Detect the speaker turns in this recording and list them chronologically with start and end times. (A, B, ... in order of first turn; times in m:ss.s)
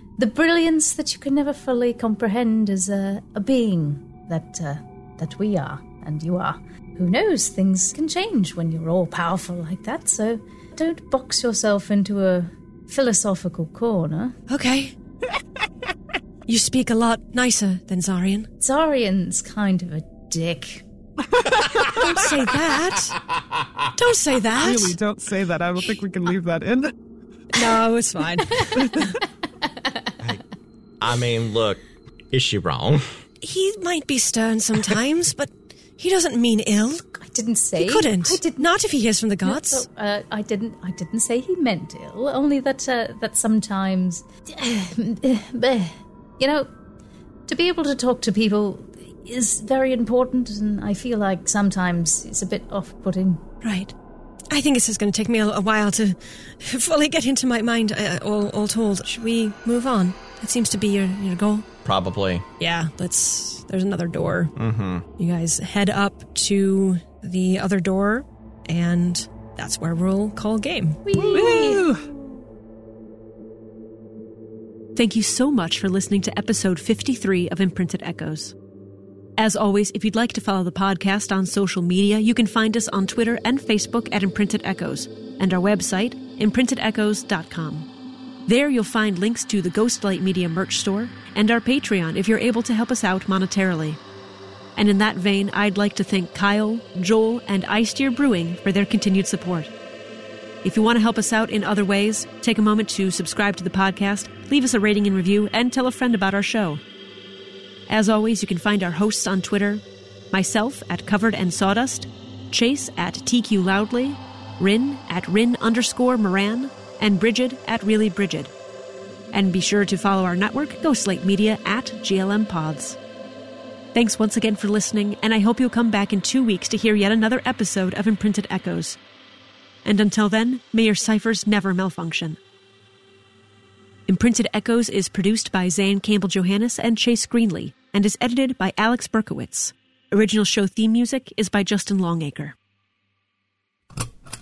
0:00.2-0:14.4 A
0:14.5-0:14.9 B
0:16.5-0:18.5 B
0:18.6-0:20.8 A
0:21.3-0:22.3 C
0:21.6-0:22.0 D
0:21.9-0:23.2 B
0:23.3-0:23.9 D
0:24.0-0:25.0 B
0:24.6-0:26.9 C
0:27.5-0:29.2 B
0:28.6-0:29.1 C
0:31.0-0:33.0 D
0:33.4-0:37.0 B
0:37.2-0:38.7 A
0:37.8-0:39.9 B
0:39.4-0:46.7 A
0:47.5-0:53.4 A
0:53.6-0:53.9 B
0:54.5-1:01.7 B
1:01.8-1:02.4 D
1:02.6-1:04.5 B
1:04.6-1:05.0 D
1:05.2-1:11.6 B
1:11.1-1:11.9 A
1:11.3-1:12.1 C
1:15.0-1:18.5 E
1:19.4-1:27.9 E
1:28.5-1:34.0 E
1:34.8-1:39.7 E
1:40.6-1:46.8 E
1:47.9-1:58.5 E
1:59.3-2:03.0 E
2:03.9-2:09.0 E
2:09.8-2:12.4 E
2:14.1-2:22.6 E